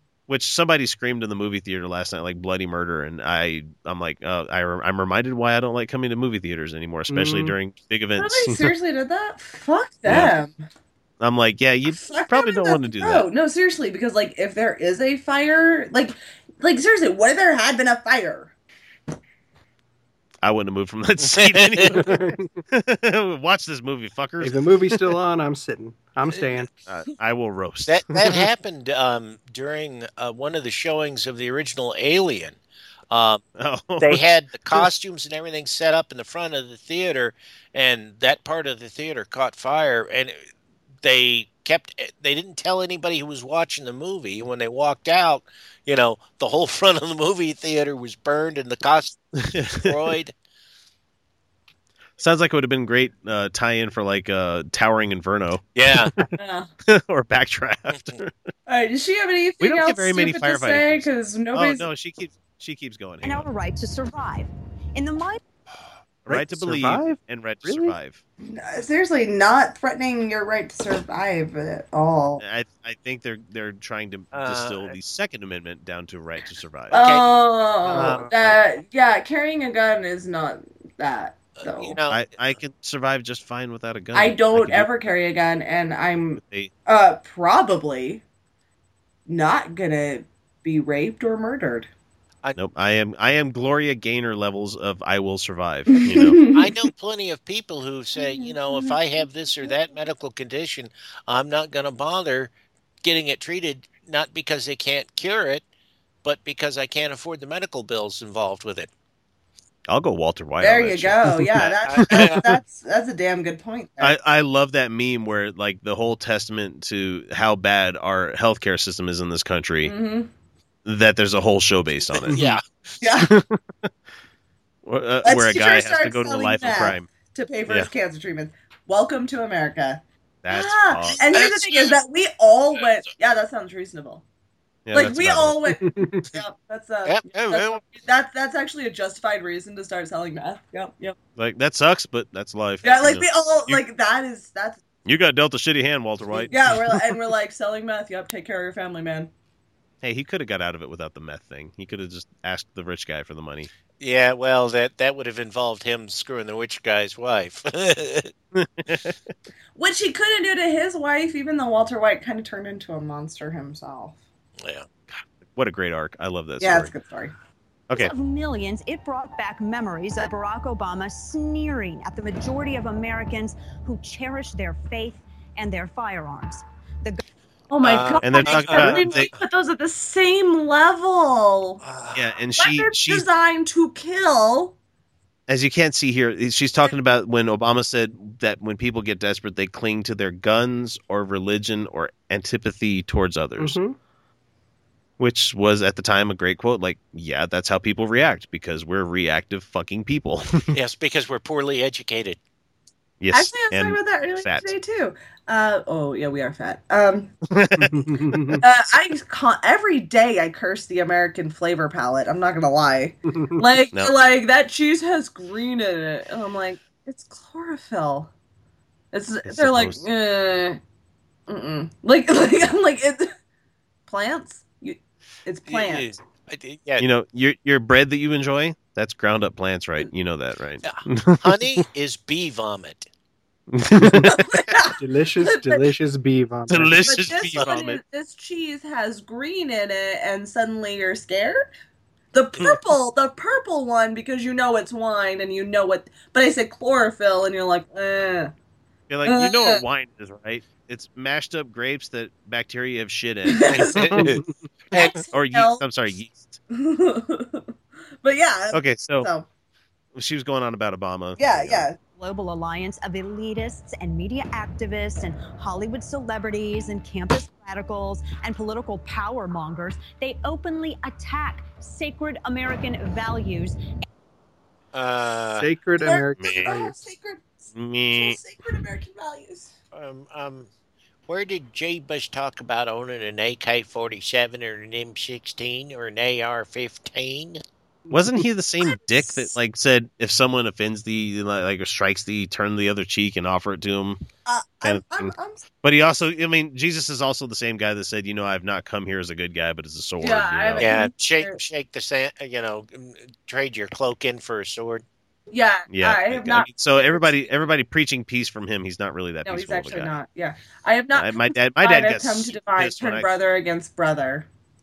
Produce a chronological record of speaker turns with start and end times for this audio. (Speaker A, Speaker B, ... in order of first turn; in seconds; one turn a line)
Speaker A: 0.3-8.7
Speaker B: 7.1-7.5
Speaker C: 8.2-10.6
Speaker A: 10.1-10.3
Speaker A: 11.2-13.3
Speaker C: 11.9-18.5
Speaker A: 20.4-22.2
Speaker D: 21.2-22.1
Speaker B: 21.9-22.5
Speaker A: 22.7-24.6
Speaker B: 24.4-26.7
Speaker D: 26.3-26.7
Speaker A: 26.9-28.4
Speaker D: 27.9-32.6
Speaker D: 33.1-33.4
Speaker A: 33.6-34.2
Speaker D: 34.0-40.4
Speaker D: 41.0-49.2
Speaker A: 49.4-50.0
Speaker D: 49.7-50.3
Speaker A: 52.2-55.6
Speaker D: 55.8-56.1
Speaker C: 56.4-56.7
Speaker A: 56.9-58.4
Speaker C: 58.7-61.9
Speaker A: 59.6-63.5
Speaker E: 63.2-65.4
Speaker A: 66.3-68.2
Speaker B: 66.3-68.0
Speaker C: 68.4-72.4
Speaker A: 72.4-77.0
Speaker D: 74.3-75.0
Speaker C: 76.9-82.0
Speaker D: 76.9-77.3
Speaker D: 77.9-78.6
Speaker B: 77.9-78.3
Speaker D: 81.6-82.3
Speaker A: 82.1-84.9
Speaker C: 84.1-88.2
Speaker A: 86.4-86.7
Speaker C: 89.3-91.9
Speaker A: 92.6-96.4
Speaker C: 96.0-96.8
Speaker D: 96.5-105.7
Speaker C: 98.2-99.0
Speaker D: 106.2-108.9
Speaker A: 109.9-111.5
Speaker C: 110.6-114.2
Speaker D: 111.5-112.5
Speaker A: 114.0-120.0
Speaker C: 119.8-120.3
Speaker A: 120.8-122.4
Speaker D: 122.2-122.9
Speaker C: 123.0-123.3
Speaker A: 123.2-123.9
Speaker A: 124.8-127.1
Speaker C: 125.2-134.2
Speaker A: 130.4-131.2
Speaker D: 131.2-132.0
Speaker D: 132.7-133.0
Speaker A: 134.9-135.7
Speaker C: 134.9-141.2
Speaker B: 135.8-136.3
Speaker D: 137.1-137.9
Speaker A: 141.4-143.8
Speaker C: 142.8-144.8
Speaker A: 145.1-146.5
Speaker C: 146.5-149.3
Speaker A: 150.0-153.7
Speaker D: 154.0-158.3
Speaker A: 158.6-159.2
Speaker C: 159.8-164.2
Speaker D: 164.6-164.9
Speaker A: 165.1-166.9
Speaker C: 166.6-167.3
Speaker E: 167.9-177.2
Speaker C: 177.7-181.8
Speaker D: 177.8-179.3
Speaker A: 178.2-179.3
Speaker D: 181.8-182.3
Speaker A: 182.1-183.3
Speaker C: 182.6-184.8
Speaker A: 185.5-193.8
Speaker B: 193.6-193.9
Speaker A: 195.2-200.8
Speaker D: 200.7-202.4
Speaker A: 203.2-204.7
Speaker C: 203.3-207.3
Speaker A: 207.5-207.9
Speaker B: 207.8-208.6
Speaker C: 208.6-218.3
Speaker B: 213.3-213.6
Speaker C: 219.1-220.8
Speaker A: 219.4-220.0
Speaker C: 221.5-223.3
Speaker C: 224.1-226.1
Speaker D: 225.7-227.1
Speaker A: 227.0-231.8
Speaker D: 230.8-233.1
Speaker A: 233.7-234.4
Speaker B: 234.0-234.3
Speaker C: 234.3-235.9
Speaker B: 235.0-237.0
Speaker A: 236.7-238.0
Speaker C: 237.0-241.7
Speaker D: 237.4-237.8
Speaker C: 242.3-248.5
Speaker A: 249.1-253.8
Speaker C: 249.3-249.8
Speaker C: 253.5-254.3
Speaker D: 253.7-255.2
Speaker B: 254.2-254.5
Speaker C: 254.9-255.8
Speaker A: 255.3-256.6
Speaker C: 256.7-259.5
Speaker A: 258.7-259.3
Speaker A: 260.1-261.9
Speaker C: 261.4-262.0
Speaker E: 262.2-273.8
Speaker D: 274.9-275.7
Speaker B: 275.6-276.9
Speaker C: 276.0-279.7
Speaker A: 276.4-276.8
Speaker A: 277.7-278.4
Speaker D: 279.9-280.7
Speaker D: 281.3-287.6
Speaker A: 288.1-294.2
Speaker C: 288.8-289.5
Speaker C: 294.4-295.6
Speaker A: 294.8-301.0
Speaker C: 300.2-301.6
Speaker D: 300.8-305.0
Speaker C: 305.5-307.4
Speaker A: 305.9-310.1
Speaker C: 309.4-314.5
Speaker A: 311.1-313.3